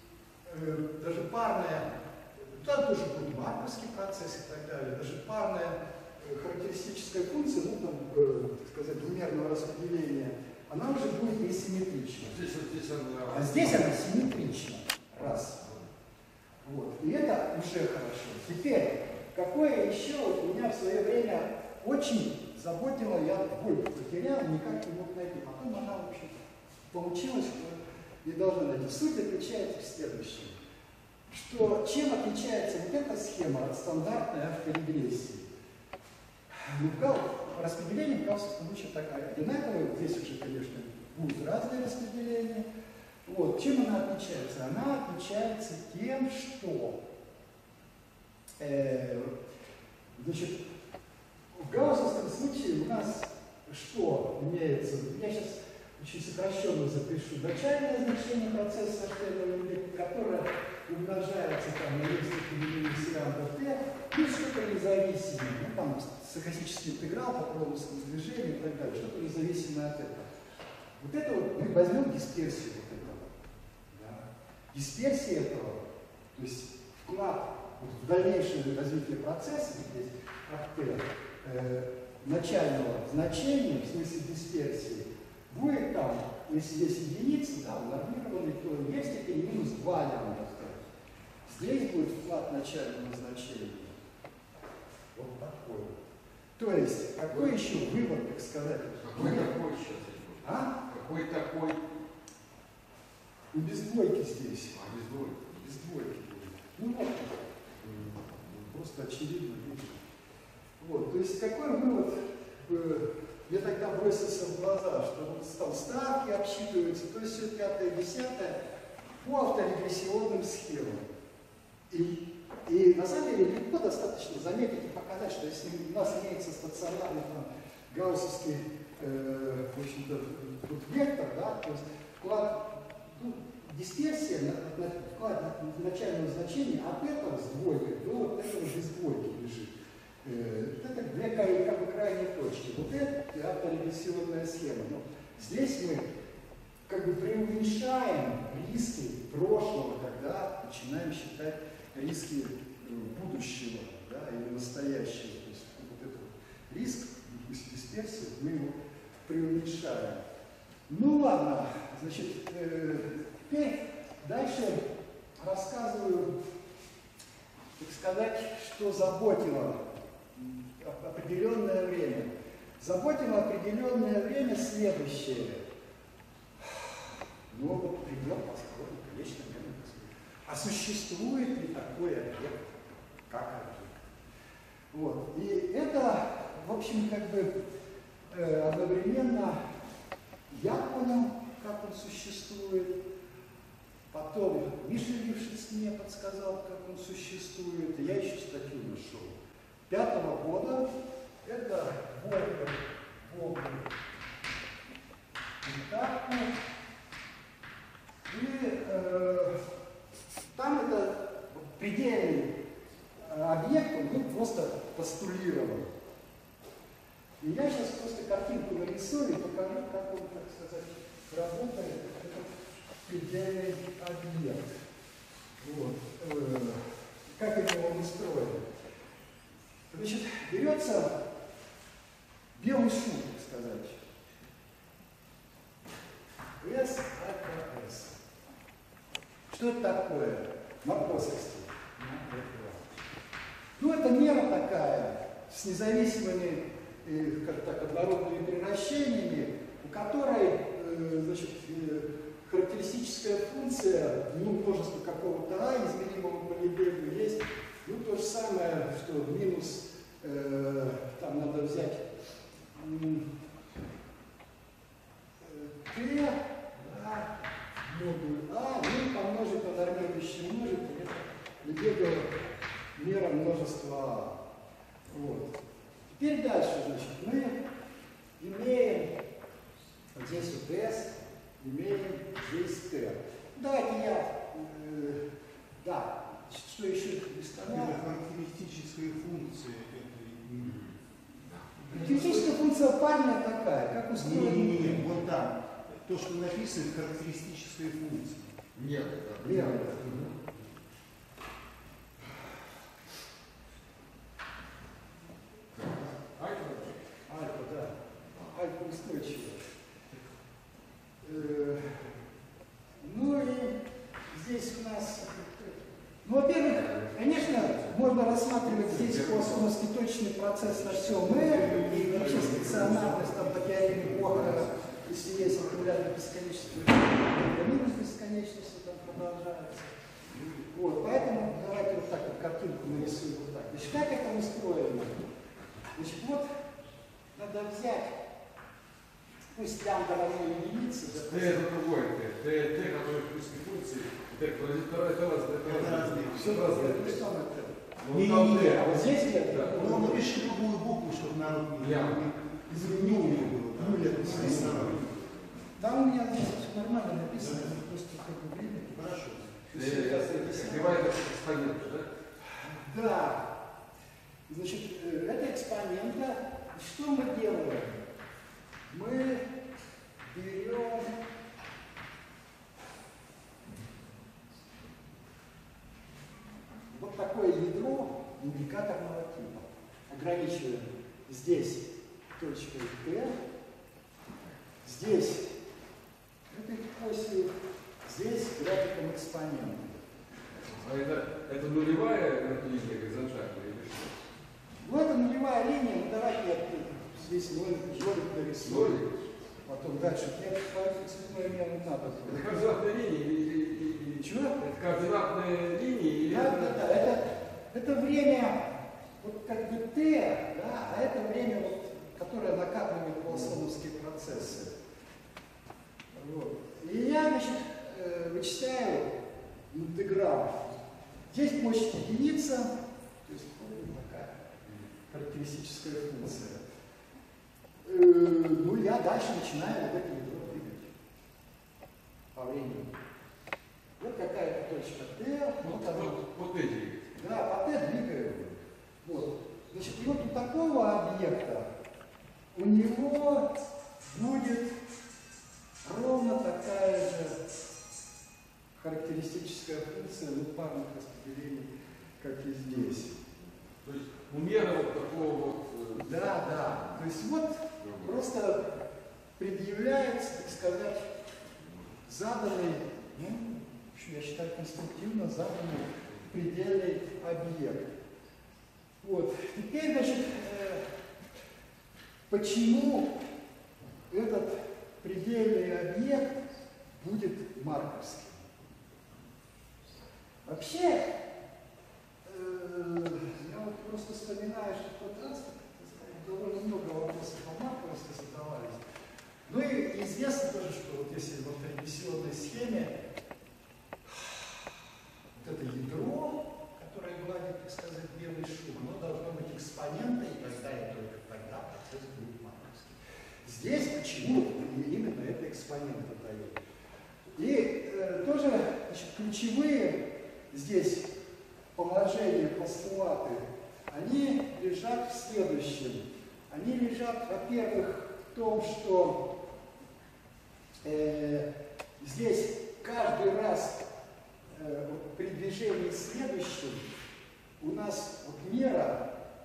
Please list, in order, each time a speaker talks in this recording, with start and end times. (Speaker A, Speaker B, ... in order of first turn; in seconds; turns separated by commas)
Speaker A: 0.5-12.4, Speaker B: 12.2-13.9, Speaker A: 13.3-15.6, Speaker A: 16.6-30.6, Speaker A: 31.3-35.5, Speaker A: 36.5-42.6, Speaker A: 43.2-47.0, Speaker A: 48.6-49.3, Speaker A: 50.2-50.6, Speaker A: 51.5-70.3, Speaker A: 71.0-73.4, Speaker A: 73.9-75.8, Speaker A: 76.3-90.8, Speaker A: 91.5-94.0, Speaker A: 95.1-96.0, Speaker A: 96.6-99.5, Speaker B: 99.0-101.9, Speaker A: 100.4-100.7, Speaker A: 103.5-104.7, Speaker B: 104.7-105.6, Speaker A: 105.5-110.0, Speaker A: 110.8-118.6, Speaker A: 119.2-121.1, Speaker A: 121.9-139.7, Speaker A: 140.2-146.1, Speaker A: 146.9-160.2, Speaker A: 160.9-164.8, Speaker A: 165.4-166.3, Speaker A: 167.8-175.6, Speaker A: 176.6-184.0, Speaker A: 184.9-187.5, Speaker A: 188.3-189.6, Speaker A: 190.5-193.0, Speaker A: 194.1-199.4, Speaker A: 199.9-200.9, Speaker A: 201.4-203.9, Speaker A: 205.6-206.5, Speaker A: 208.3-209.6, Speaker A: 210.5-212.5, Speaker A: 213.2-215.9, Speaker A: 217.4-222.5, Speaker A: 223.0-224.8, Speaker A: 225.6-228.6, Speaker A: 229.9-231.2, Speaker A: 232.5-234.0, Speaker A: 236.6-238.2, Speaker A: 239.5-242.9, Speaker A: 243.8-262.1, Speaker A: 262.7-263.3, Speaker A: 265.4-272.4, Speaker A: 272.9-274.4, Speaker A: 275.1-275.6, Speaker A: 276.1-277.6, Speaker A: 278.4-279.2, Speaker A: 280.1-285.2, Speaker A: 285.8-288.0, Speaker C: 287.6-290.9, Speaker C: 291.8-292.5, Speaker A: 291.9-295.1, Speaker C: 294.1-298.6, Speaker B: 298.7-300.4, Speaker A: 299.4-300.3, Speaker B: 305.7-307.0, Speaker A: 307.3-308.0, Speaker A: 308.5-309.6, Speaker A: 311.2-312.1, Speaker A: 313.0-313.8, Speaker A: 314.3-329.9, Speaker B: 316.9-317.9, Speaker B: 318.6-319.7, Speaker C: 321.3-324.7, Speaker A: 330.6-335.2, Speaker A: 335.9-336.5, Speaker A: 337.3-338.2, Speaker A: 339.5-341.6, Speaker B: 341.2-347.2, Speaker C: 345.6-346.8, Speaker A: 346.3-350.6, Speaker B: 348.0-349.8, Speaker C: 348.1-355.1, Speaker B: 351.8-352.3, Speaker A: 352.7-355.0, Speaker B: 354.3-355.5, Speaker A: 355.8-359.1, Speaker C: 357.4-357.8, Speaker C: 358.9-359.5, Speaker A: 359.7-361.1, Speaker B: 359.7-362.1, Speaker A: 362.6-363.5, Speaker A: 364.5-368.0, Speaker A: 368.9-369.5, Speaker A: 370.3-371.2, Speaker A: 376.9-383.3, Speaker A: 384.8-385.6, Speaker A: 386.5-387.5, Speaker A: 388.0-390.1, Speaker B: 390.7-394.1, Speaker A: 394.8-399.0, Speaker B: 398.6-399.1, Speaker A: 399.6-402.8, Speaker B: 402.3-407.1, Speaker A: 404.2-404.6, Speaker A: 406.2-414.7, Speaker A: 416.1-419.1, Speaker A: 419.7-420.7, Speaker A: 421.3-426.6, Speaker A: 427.8-430.9, Speaker A: 432.3-432.9, Speaker A: 434.0-436.2, Speaker B: 435.6-437.1, Speaker A: 437.1-441.7, Speaker A: 442.5-443.5, Speaker A: 444.1-444.8, Speaker A: 445.8-447.4, Speaker A: 448.8-453.2, Speaker B: 453.8-456.9, Speaker A: 456.0-458.7, Speaker B: 457.8-458.1, Speaker A: 459.4-461.1, Speaker A: 462.1-467.9, Speaker A: 469.0-470.9, Speaker A: 472.3-473.2, Speaker A: 474.1-476.4, Speaker A: 477.0-478.5, Speaker A: 480.4-481.1, Speaker A: 482.2-488.8, Speaker A: 489.5-492.9, Speaker A: 494.1-494.5, Speaker A: 495.4-506.6, Speaker A: 507.4-511.1, Speaker A: 511.7-519.3, Speaker A: 520.8-521.5, Speaker A: 522.0-523.8, Speaker A: 524.5-526.9, Speaker A: 527.6-529.1